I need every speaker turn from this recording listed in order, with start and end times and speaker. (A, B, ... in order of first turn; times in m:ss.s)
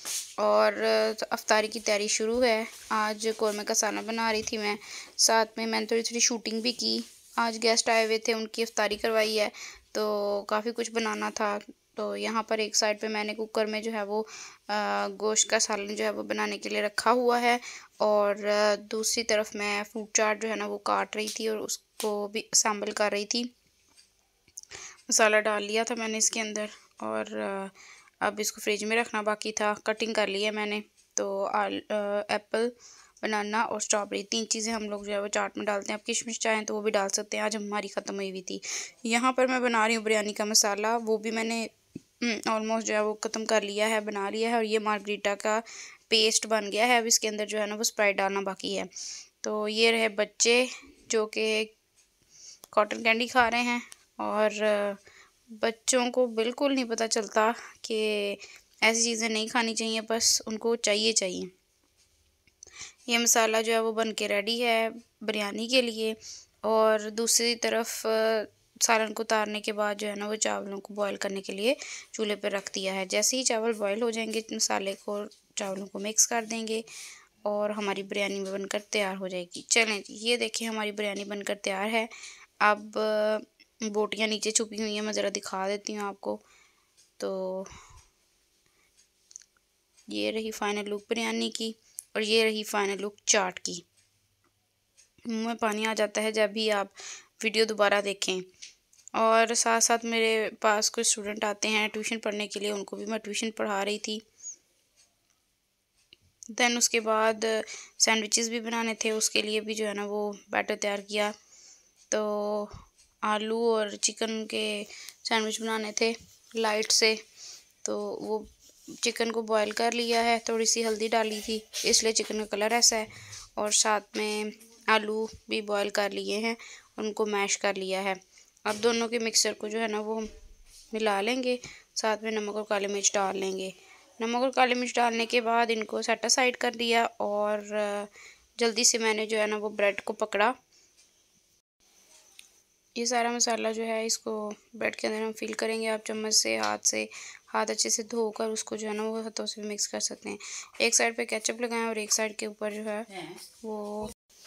0:00.4-0:23.5 A
0:25.1-0:48.9 A
0:49.4-0:51.7 A
0:52.7-0:55.0 A
0:55.5-1:01.5 A
1:03.1-1:16.8 A
1:17.4-1:26.4 A
1:27.2-1:27.7 A
1:30.1-1:33.9 A
1:35.2-1:38.5 A
1:39.2-1:44.2 A
1:46.5-1:51.3 A
1:52.1-1:57.2 A
1:57.8-1:58.5 A
1:59.0-2:10.3 A
2:10.9-2:20.6 A
2:23.0-2:34.1 A